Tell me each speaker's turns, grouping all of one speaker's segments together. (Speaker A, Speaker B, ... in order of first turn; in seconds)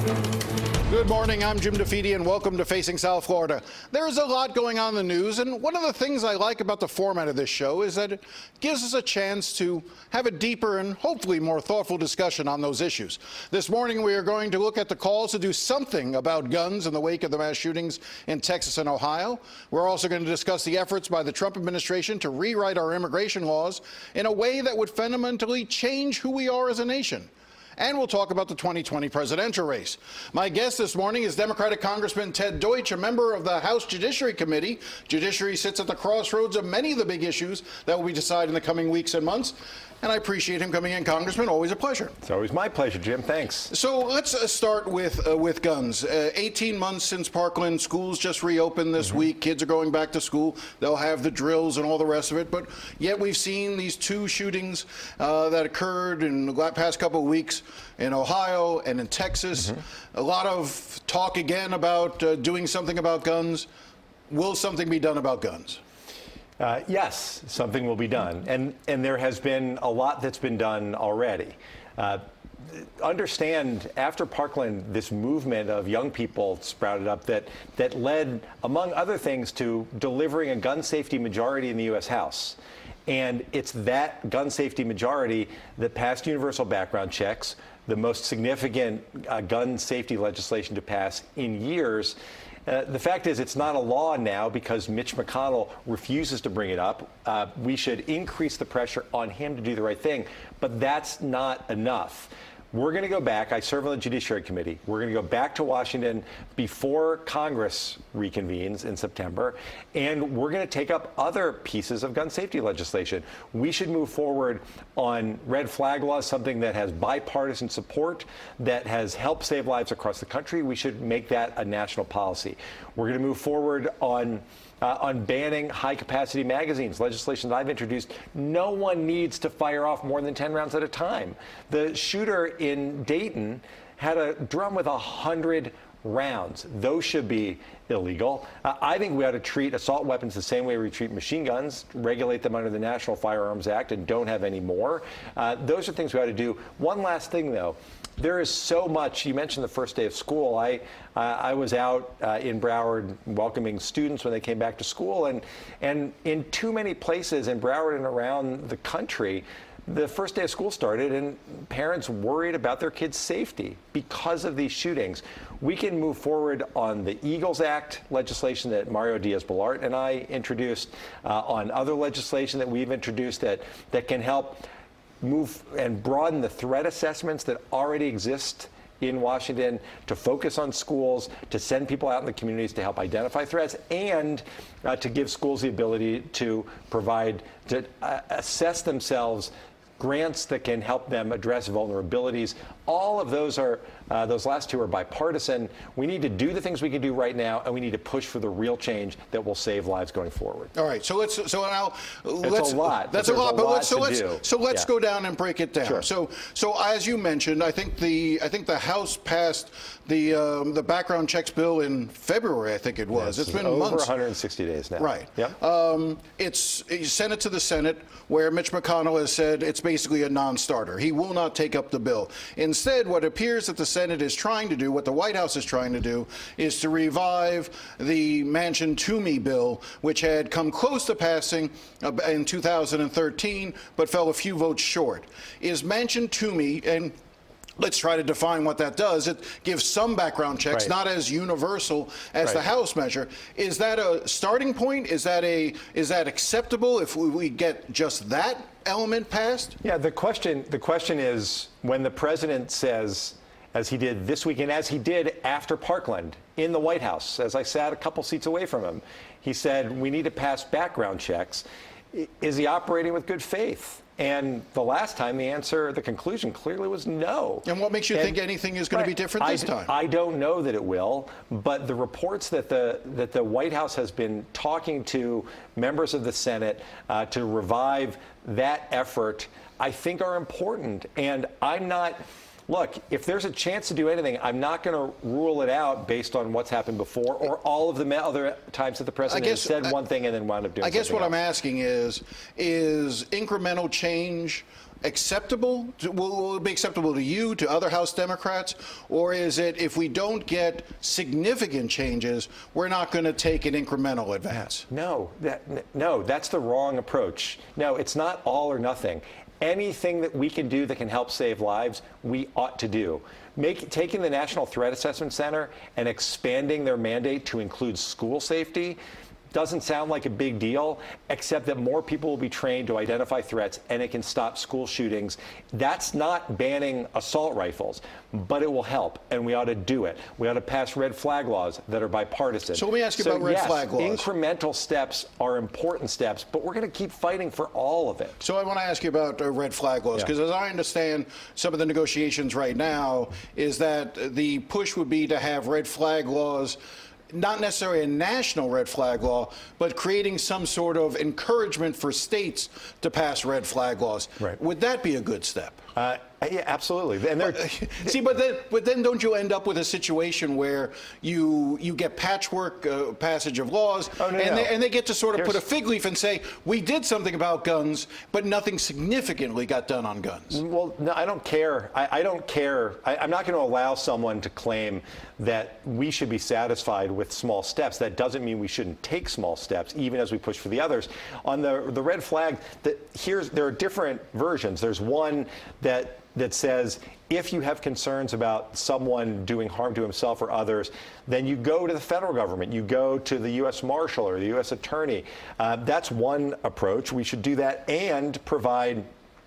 Speaker A: 0.9-42.1, 43.7-63.7, 64.3-65.8, 200.8-214.1, 215.0-237.2, 237.8-249.8, 267.6-269.9, 289.3-290.0, 290.8-304.9, 332.7-334.3, 338.4-346.8, 347.3-355.8, 357.4-370.6
Speaker B: 42.2-43.7, 66.6-174.6, 175.2-200.7, 202.4-204.9, 205.8-206.1, 213.1-215.6, 249.8-268.4, 268.9-291.4, 304.9-319.0, 319.5-338.4, 356.0-358.1, 364.2-364.7, 365.4-365.6, 370.5-399.1